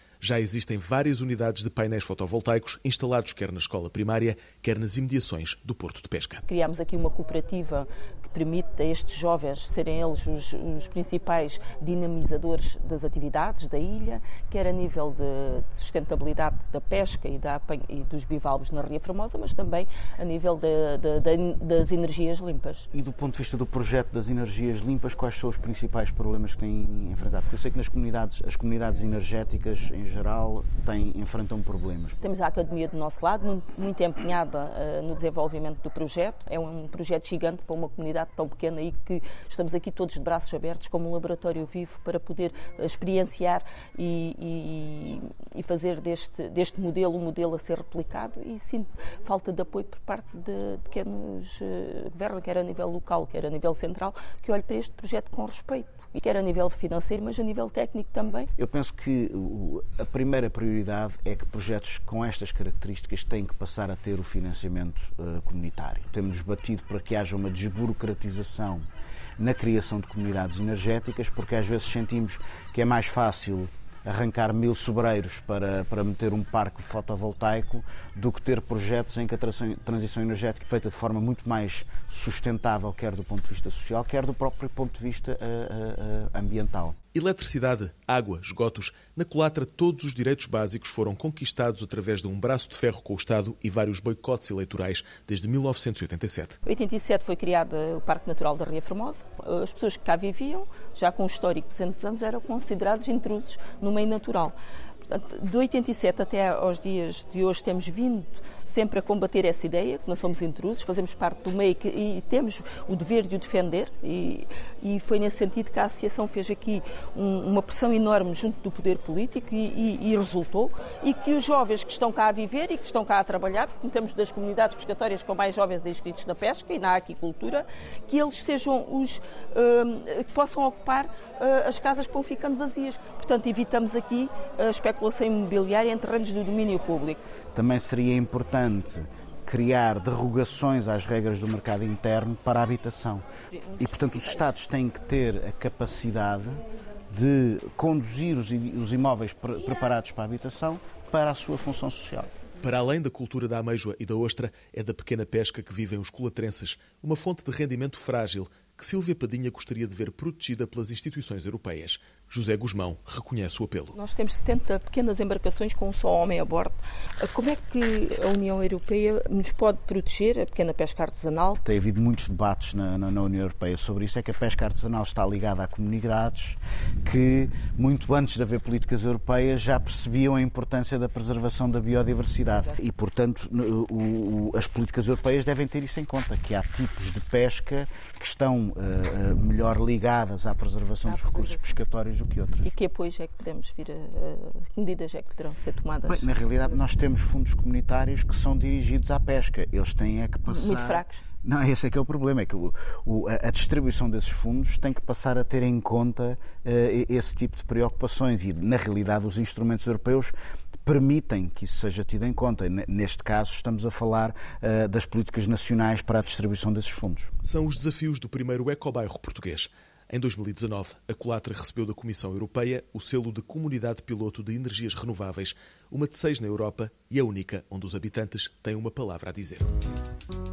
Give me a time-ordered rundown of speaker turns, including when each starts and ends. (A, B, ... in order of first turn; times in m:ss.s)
0:00.2-0:06.4 A
0:06.4-0:22.9 B
0:22.9-0:32.2 C
0:32.2-0:58.5 B
0:58.6-1:08.8 C
1:09.4-1:27.0 C
1:27.1-1:36.6 A
1:36.6-1:44.5 B
1:45.1-2:17.2 B
2:17.5-2:23.2 C
2:23.6-2:24.4 B
2:23.8-2:32.3 C
2:32.6-2:43.9 A
2:43.9-2:51.6 B
2:51.6-3:12.7 C
3:02.5-3:02.8 B
3:11.0-3:11.7 B
3:12.6-3:16.7 B
3:16.0-3:30.3 C
3:20.5-3:21.2 B
3:30.8-3:37.3 C
3:37.4-3:49.7 A